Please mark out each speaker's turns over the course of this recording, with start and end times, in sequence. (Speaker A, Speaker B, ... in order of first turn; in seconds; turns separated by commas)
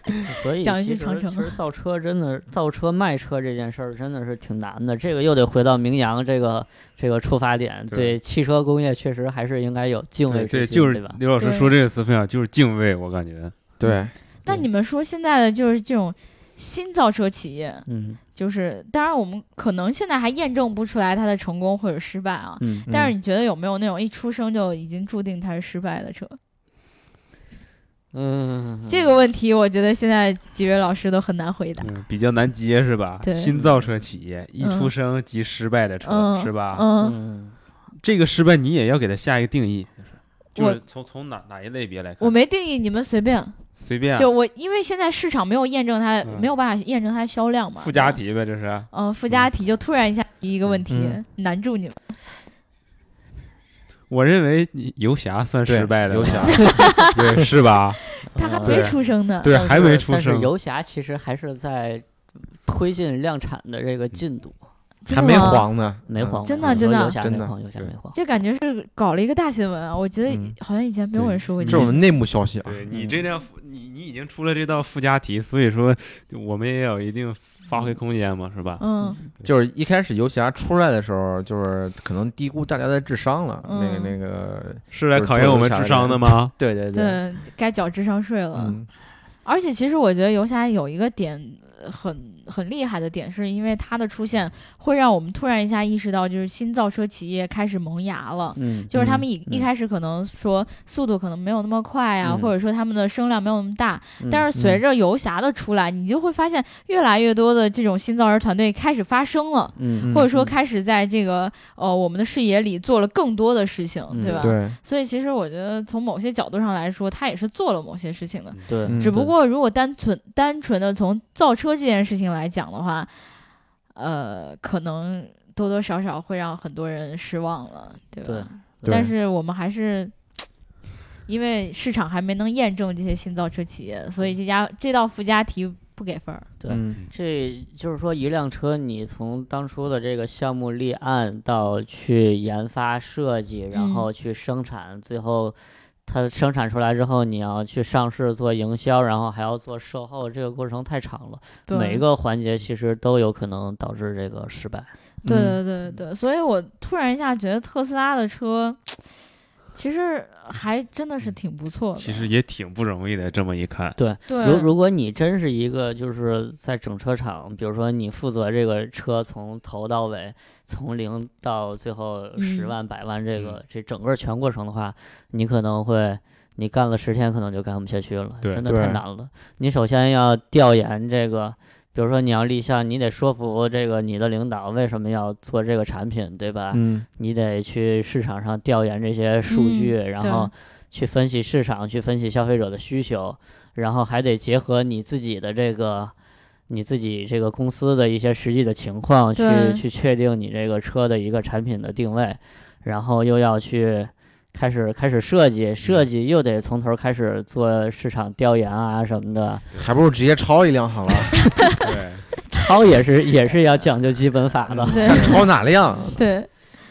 Speaker A: 0.3-11.2, Speaker B: 0.6-1.5, Speaker C: 7.9-8.2, Speaker C: 10.3-13.6, Speaker B: 11.4-11.7, Speaker D: 13.8-14.1, Speaker A: 13.8-14.7, Speaker B: 14.4-26.4, Speaker A: 17.9-18.2, Speaker A: 22.6-22.9, Speaker A: 28.1-29.1, Speaker B: 28.9-31.9, Speaker C: 31.8-36.9, Speaker B: 33.2-33.5, Speaker B: 34.6-34.9, Speaker B: 36.0-37.2, Speaker A: 37.0-37.5, Speaker C: 38.0-42.4, Speaker B: 42.2-43.6, Speaker C: 43.8-44.3, Speaker B: 44.1-48.2, Speaker C: 46.2-46.5, Speaker C: 47.8-49.4, Speaker B: 48.9-52.1, Speaker D: 50.9-51.2, Speaker C: 54.1-58.0, Speaker D: 55.7-57.0, Speaker B: 56.5-57.1, Speaker B: 58.2-59.5, Speaker A: 58.3-62.1, Speaker C: 58.6-60.5, Speaker A: 62.6-64.6, Speaker B: 65.0-65.7, Speaker D: 65.1-67.5, Speaker A: 66.1-68.2, Speaker B: 66.4-67.2, Speaker B: 68.1-72.0, Speaker D: 70.3-70.5, Speaker C: 71.2-71.9, Speaker D: 71.7-72.8, Speaker C: 72.6-78.8, Speaker A: 72.9-73.2, Speaker B: 78.8-79.2, Speaker D: 79.4-87.2, Speaker B: 83.6-84.1, Speaker C: 84.9-86.5, Speaker B: 86.9-88.8, Speaker D: 88.5-88.9, Speaker B: 89.4-123.2, Speaker A: 98.5-99.7, Speaker D: 99.0-99.2, Speaker A: 102.2-102.5, Speaker A: 104.2-104.5, Speaker A: 109.8-110.5, Speaker D: 110.0-110.3, Speaker A: 114.1-114.5, Speaker D: 114.4-114.8, Speaker C: 118.5-118.9, Speaker A: 118.7-119.0, Speaker D: 118.9-119.3, Speaker B: 124.0-130.4, Speaker A: 128.2-129.0, Speaker D: 128.8-129.1, Speaker B: 131.3-136.5, Speaker A: 136.6-154.9, Speaker D: 136.7-137.0, Speaker B: 143.7-144.1, Speaker B: 151.7-152.0, Speaker D: 155.2-155.6, Speaker B: 155.3-159.2, Speaker B: 159.7-162.3, Speaker C: 162.0-164.0, Speaker A: 163.9-196.1, Speaker B: 164.3-164.7, Speaker B: 172.4-172.7, Speaker D: 178.6-179.0, Speaker D: 186.7-187.1, Speaker B: 189.5-190.5, Speaker A: 196.7-209.6, Speaker B: 199.3-199.8, Speaker D: 209.8-211.6, Speaker C: 211.8-212.3, Speaker A: 212.5-215.4, Speaker C: 214.7-215.1, Speaker B: 214.9-215.5, Speaker D: 215.1-216.2, Speaker B: 216.1-216.5